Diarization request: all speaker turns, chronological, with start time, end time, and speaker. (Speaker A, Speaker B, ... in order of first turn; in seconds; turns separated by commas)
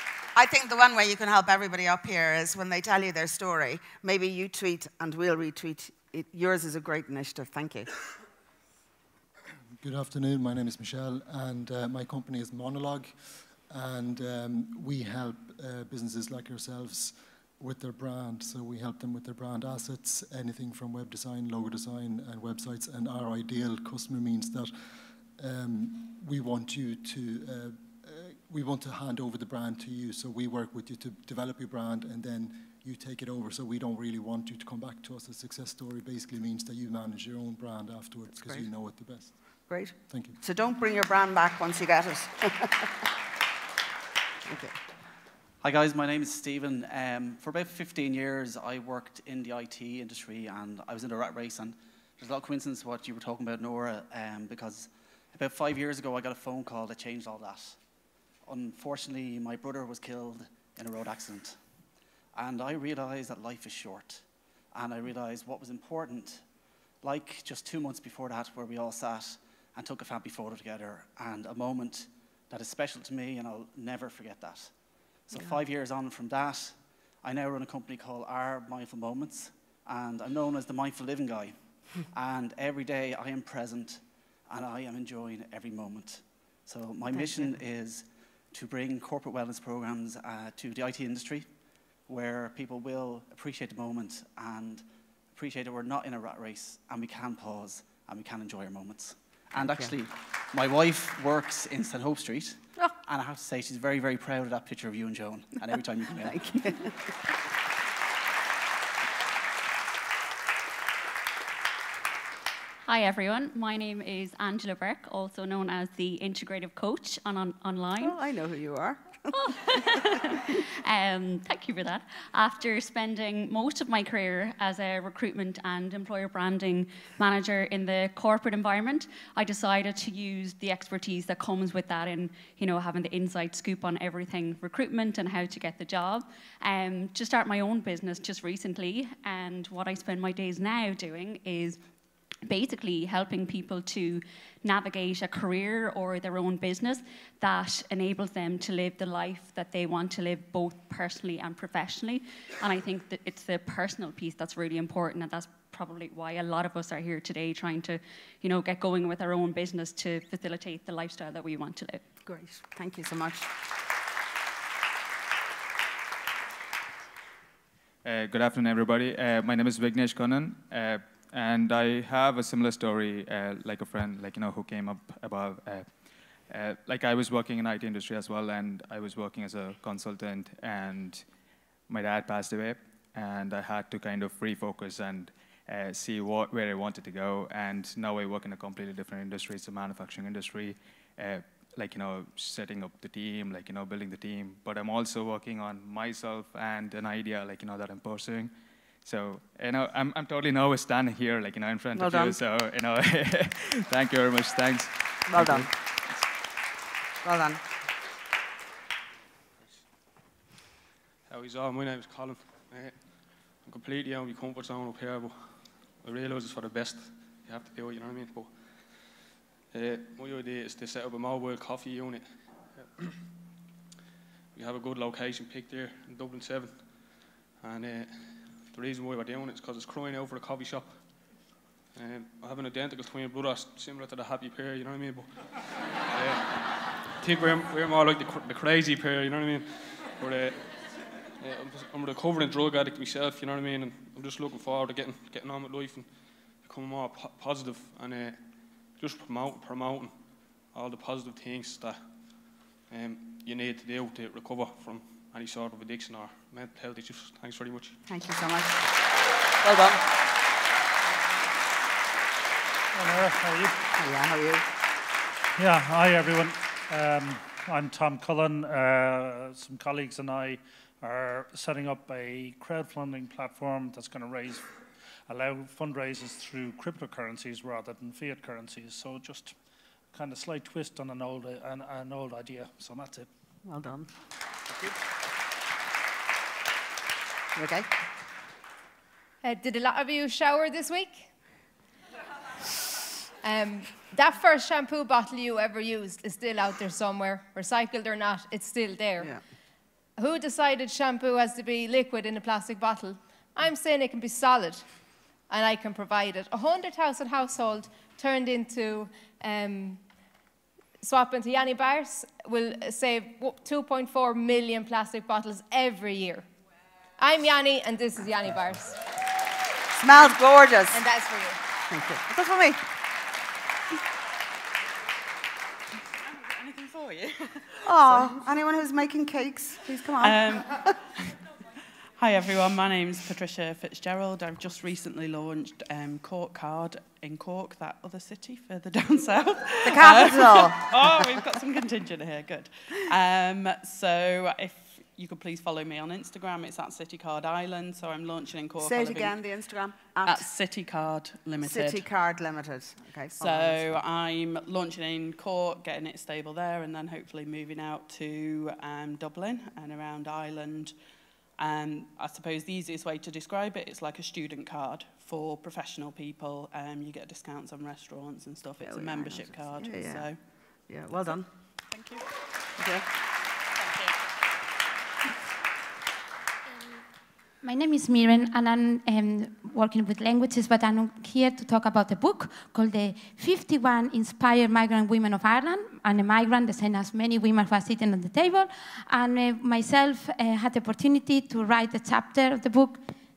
Speaker A: 0.4-7.9, Speaker B: 9.8-24.7, Speaker B: 25.4-40.4, Speaker A: 38.4-38.7, Speaker A: 39.7-42.9, Speaker A: 44.5-44.8, Speaker C: 45.6-57.8, Speaker C: 58.5-61.6, Speaker C: 62.3-106.8, Speaker A: 87.1-87.5, Speaker A: 99.5-99.9, Speaker A: 106.2-106.9, Speaker D: 112.9-118.2, Speaker A: 118.0-119.3, Speaker D: 119.8-141.8, Speaker D: 142.4-162.0, Speaker A: 162.3-163.5, Speaker E: 168.1-205.7, Speaker A: 201.9-202.4, Speaker A: 205.3-205.7, Speaker A: 207.2-207.6, Speaker F: 211.3-219.1, Speaker F: 219.7-223.2, Speaker F: 224.5-231.4, Speaker F: 231.9-235.5, Speaker F: 236.1-240.7, Speaker F: 241.4-258.0, Speaker A: 258.1-258.8, Speaker A: 259.6-260.0, Speaker G: 262.9-263.8, Speaker A: 264.0-264.6, Speaker G: 265.6-274.7, Speaker G: 275.3-279.6, Speaker G: 280.1-283.3, Speaker A: 283.7-284.1, Speaker A: 287.6-287.9, Speaker H: 289.4-291.3, Speaker H: 293.4-299.4, Speaker H: 300.2-304.9, Speaker H: 305.5-310.0, Speaker H: 311.0-316.5, Speaker H: 317.2-319.0, Speaker A: 320.0-321.0, Speaker H: 320.9-321.6, Speaker A: 321.9-322.8, Speaker I: 326.4-328.3, Speaker A: 327.8-330.9, Speaker I: 330.2-330.8, Speaker I: 332.2-349.4, Speaker A: 339.9-341.1, Speaker A: 348.8-350.5, Speaker I: 350.2-352.1, Speaker A: 351.6-354.0, Speaker I: 353.4-360.9, Speaker I: 361.6-370.4, Speaker A: 368.8-370.3, Speaker A: 370.9-371.5, Speaker I: 371.9-372.3, Speaker A: 372.8-373.1, Speaker J: 377.6-393.0